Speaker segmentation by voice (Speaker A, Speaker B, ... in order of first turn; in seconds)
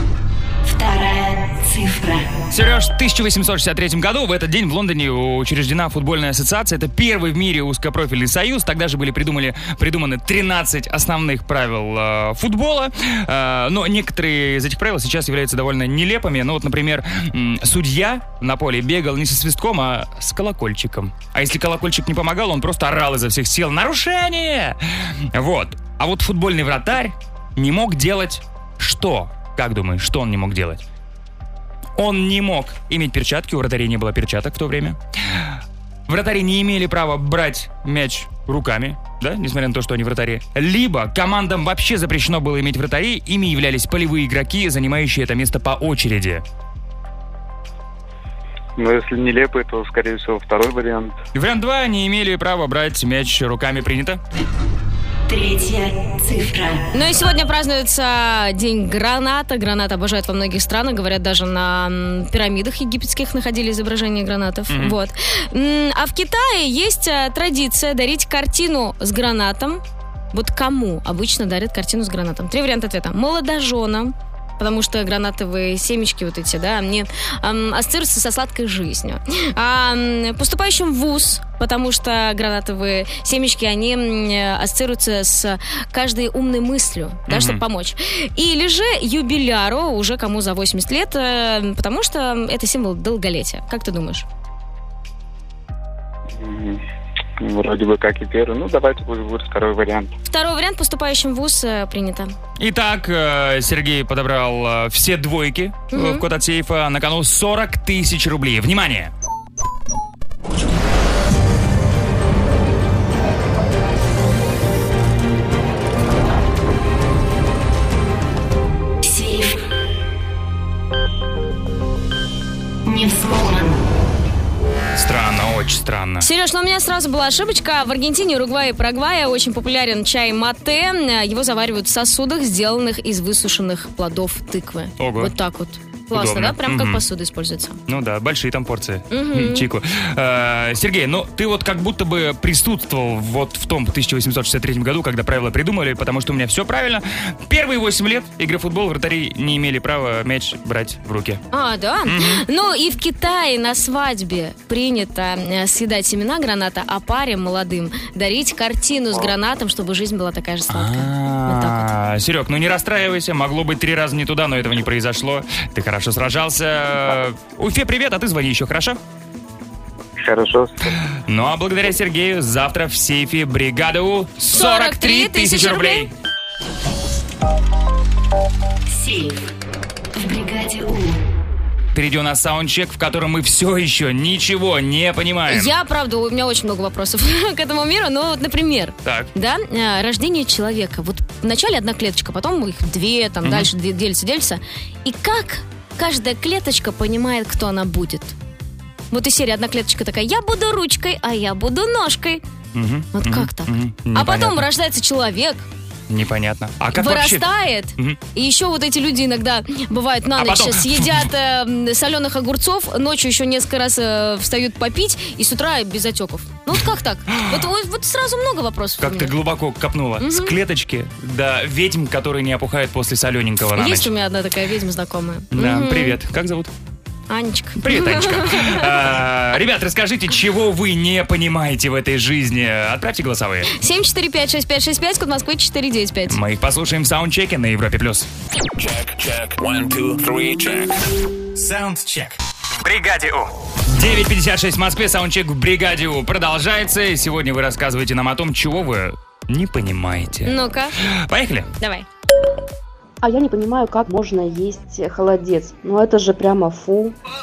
Speaker A: 0.6-2.4, 55.3-56.9, 119.0-119.6, 122.8-123.8, 178.9-179.5, 180.1-181.2
Speaker B: 2.5-30.8, 32.0-46.4, 51.3-54.2, 64.7-65.0, 87.3-87.6, 102.6-109.1, 125.0-126.3, 135.0-135.3, 136.1-137.0, 137.9-151.4, 152.1-152.4, 160.7-169.0, 171.3-176.1, 181.9-185.7, 189.1-189.3, 193.4-193.7, 202.8-204.7, 206.1-207.4, 210.4-211.3, 217.3-217.6, 219.0-224.1, 225.5-226.7, 227.8-233.7, 236.3-238.3, 242.8-251.7
Speaker C: 48.8-51.2, 96.4-96.8, 97.4-100.1, 170.2-170.9
Speaker D: 56.9-69.8, 70.3-94.3, 100.3-102.3, 105.9-106.2, 126.2-137.8, 139.1-139.7, 151.5-161.9, 174.5-176.1, 185.5-198.3, 199.1-202.4, 203.2-205.7, 207.0-219.3, 220.2-220.5, 223.8-226.2, 227.3-229.0, 233.7-236.4, 250.5-250.9, 251.8-252.1
Speaker E: 238.8-240.9, 241.6-242.4
Speaker F: 253.2-257.1